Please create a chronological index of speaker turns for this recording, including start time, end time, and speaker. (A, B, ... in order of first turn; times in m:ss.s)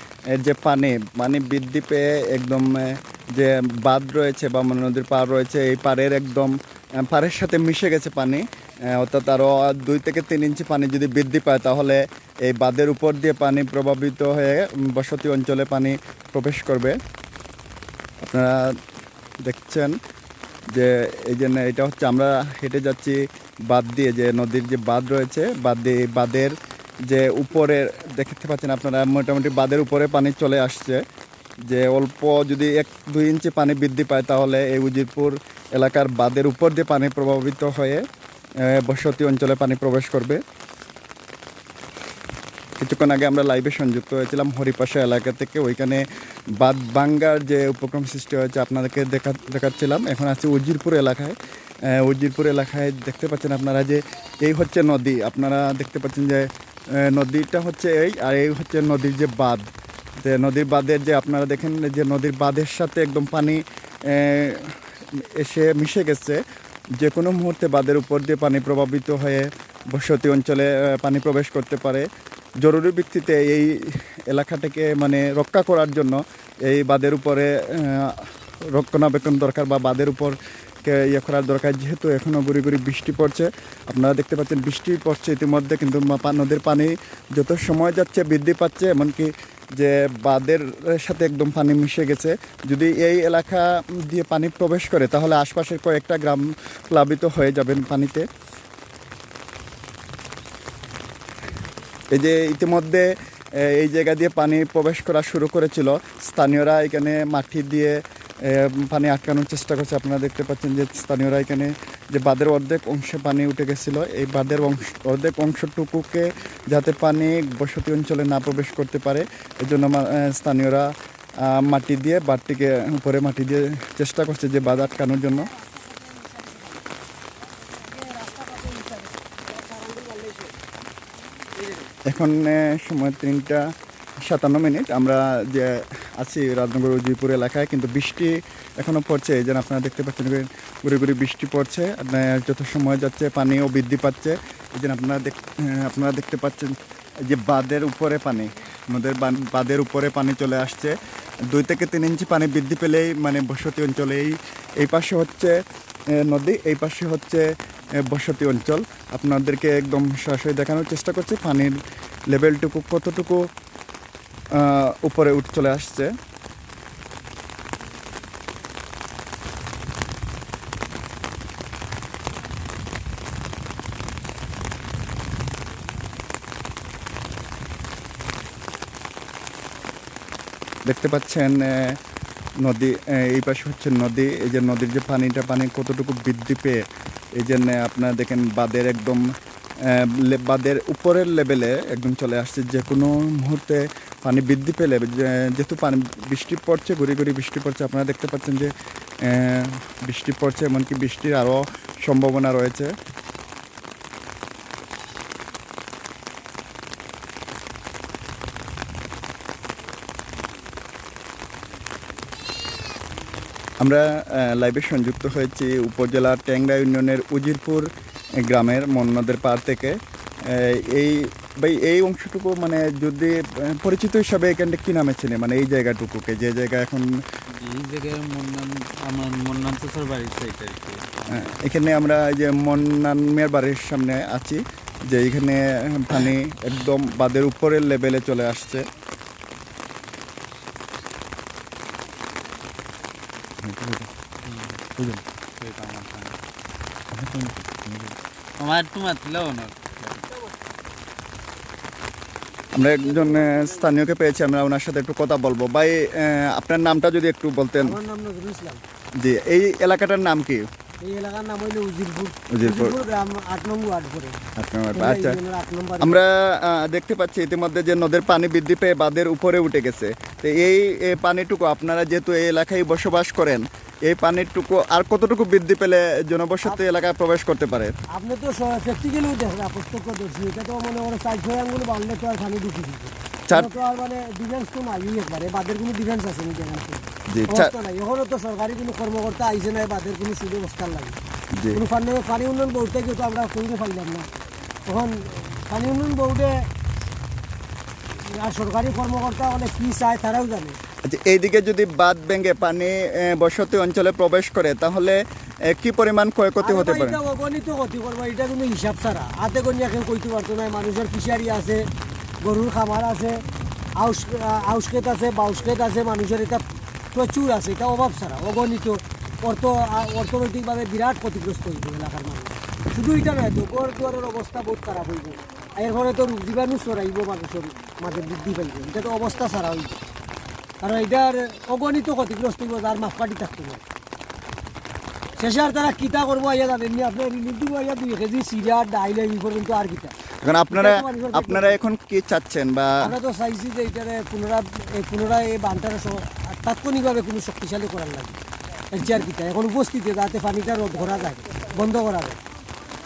0:00.3-0:17.0 A
0:18.2-0:18.8 A
0:19.4-0:20.0 A
0:20.7-0:31.0 A
0:31.7-0:38.1 A
0:38.6-0:40.4 A
0:42.8-0:59.7 A
1:00.2-1:06.4 A
1:07.0-1:12.1 A
1:12.6-1:38.3 A
1:42.1-2:05.5 A
2:07.9-2:10.5 B
2:12.1-2:13.6 A
2:14.2-2:31.0 A
2:31.5-2:35.6 A
2:36.1-2:37.5 A
2:38.0-2:41.8 A
2:42.3-2:43.5 A
2:44.5-2:46.1 A
3:00.8-3:02.0 A
3:02.6-3:23.0 A
3:33.8-3:47.2 A
3:47.5-3:51.5 C
3:51.3-3:58.9 A
4:03.6-4:04.1 A
4:04.4-4:04.8 C
4:05.0-4:05.2 A
4:05.6-4:06.4 C
4:07.1-4:08.2 A
4:08.6-4:10.2 C
4:12.8-4:18.0 A
4:17.8-4:18.8 B
4:19.2-4:20.7 A
4:21.0-4:24.4 B
4:22.5-4:23.0 A
4:24.6-4:25.4 A
4:24.9-4:26.2 B
4:26.0-4:38.0 A
4:38.1-4:51.2 B
4:47.3-4:47.7 A
4:51.6-4:51.8 A
4:51.7-4:54.3 B
4:54.9-4:56.7 B
4:58.3-5:00.8 B
5:01.0-5:07.2 A
5:06.6-5:11.9 B
5:12.4-5:13.4 B
5:14.0-5:30.0 B
5:30.8-5:33.8 B
5:35.4-5:40.1 B
5:40.4-5:43.1 A
5:40.7-5:41.8 B
5:43.0-5:48.4 B
5:48.9-5:52.4 B